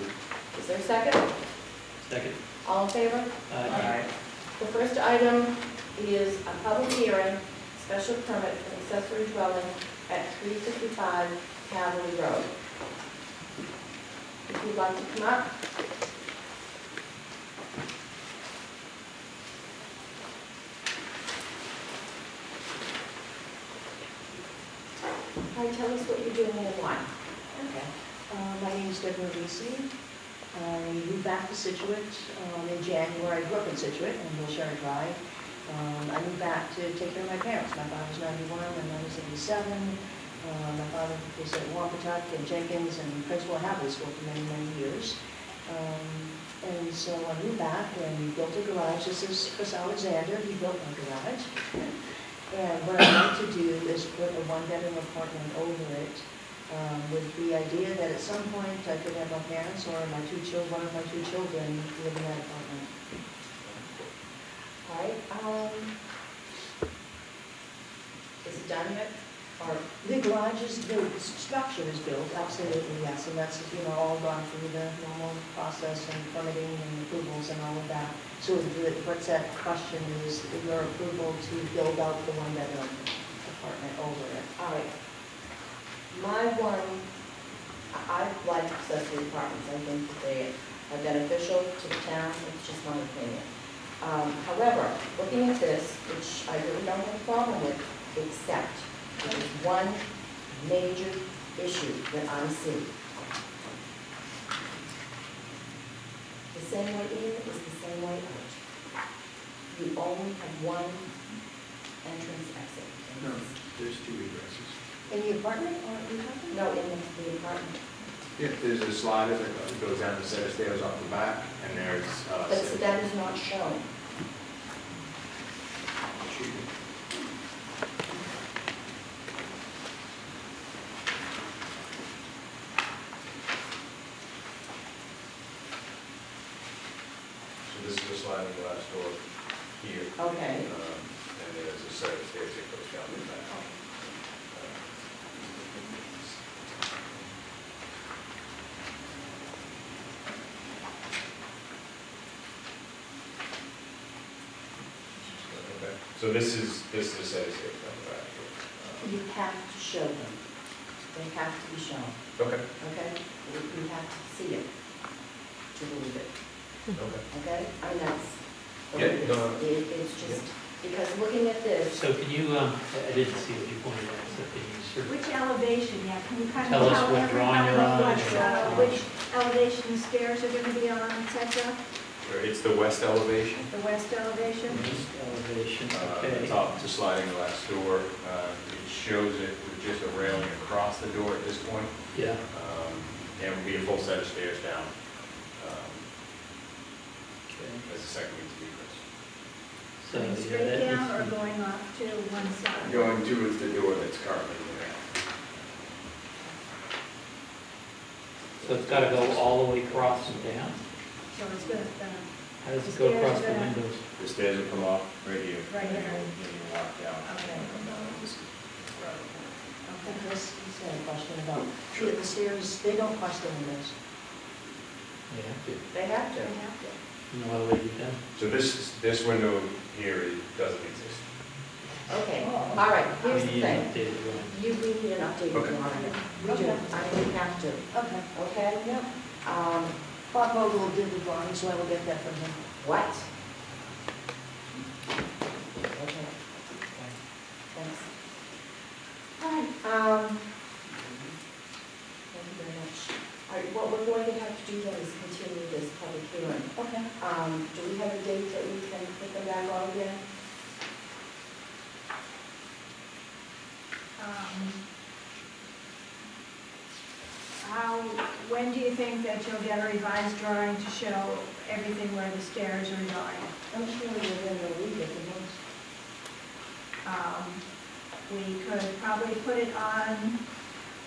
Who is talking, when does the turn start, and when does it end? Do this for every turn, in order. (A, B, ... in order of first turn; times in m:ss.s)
0:00.5-0:01.3 A
0:02.0-0:02.4 B
0:02.6-0:04.0 A
0:03.5-0:04.0 B
0:04.6-0:12.6 A
0:14.5-0:15.5 A
0:25.5-0:27.9 A
0:28.3-0:29.9 C
0:30.5-0:51.8 C
0:52.5-1:02.9 C
1:04.8-1:06.0 A
1:08.4-1:09.9 A
1:10.0-1:24.5 C
1:24.6-1:25.0 A
1:26.1-1:27.1 A
1:27.9-1:33.5 A
1:34.0-1:42.9 A
1:46.5-1:48.6 A
1:49.7-1:51.1 A
1:52.0-1:53.6 A
1:53.2-1:54.8 D
1:55.1-1:56.6 C
1:56.5-1:57.8 A
1:58.4-2:03.0 D
2:02.5-2:03.9 A
2:06.2-2:06.7 D
2:17.6-2:27.4 D
2:20.2-2:20.7 A
2:23.5-2:23.8 A
2:35.2-2:35.4 A
2:35.3-2:39.2 D
2:39.0-2:40.4 A
2:41.1-2:42.2 A
2:42.4-2:42.6 D
2:42.8-2:44.7 A
2:45.7-2:46.4 A
2:47.0-2:47.2 D
2:47.3-2:52.0 A
2:48.9-2:50.4 D
2:51.9-2:55.2 B
2:55.0-3:01.8 E
2:56.6-2:59.1 B
3:02.2-3:03.7 D
3:03.7-3:04.9 E
3:04.7-3:06.6 B
3:05.9-3:15.0 D
3:12.1-3:12.4 B
3:15.5-3:16.1 D
3:17.5-3:18.0 B
3:17.8-3:19.0 D
3:20.0-3:21.4 B
3:20.1-3:23.1 E
3:22.8-3:25.1 D
3:28.6-3:30.6 D
3:28.6-3:30.8 B
3:31.3-3:33.8 E
3:32.6-3:34.0 B
3:34.2-3:38.1 D
3:35.7-3:36.3 E
3:37.5-3:38.4 C
3:40.0-3:43.9 C
3:45.3-3:45.8 B
3:45.9-3:46.8 A
3:46.4-3:46.8 E
3:47.3-3:48.2 B
3:48.3-3:51.3 D
3:52.1-3:58.9 A
3:52.4-3:52.8 C
3:52.9-3:54.5 B
3:55.9-3:57.3 C
3:57.9-3:59.1 C
3:59.4-4:00.0 A
4:00.3-4:02.6 C
4:02.8-4:03.3 A
4:05.9-4:07.2 A
4:07.7-4:08.2 A
4:09.4-4:10.4 A
4:11.0-4:11.4 A
4:12.3-4:20.2 A
4:16.8-4:17.1 C
4:24.2-4:24.8 E
4:27.6-4:33.5 E
4:33.7-4:35.6 C
4:37.0-4:37.6 E
4:38.3-4:40.4 E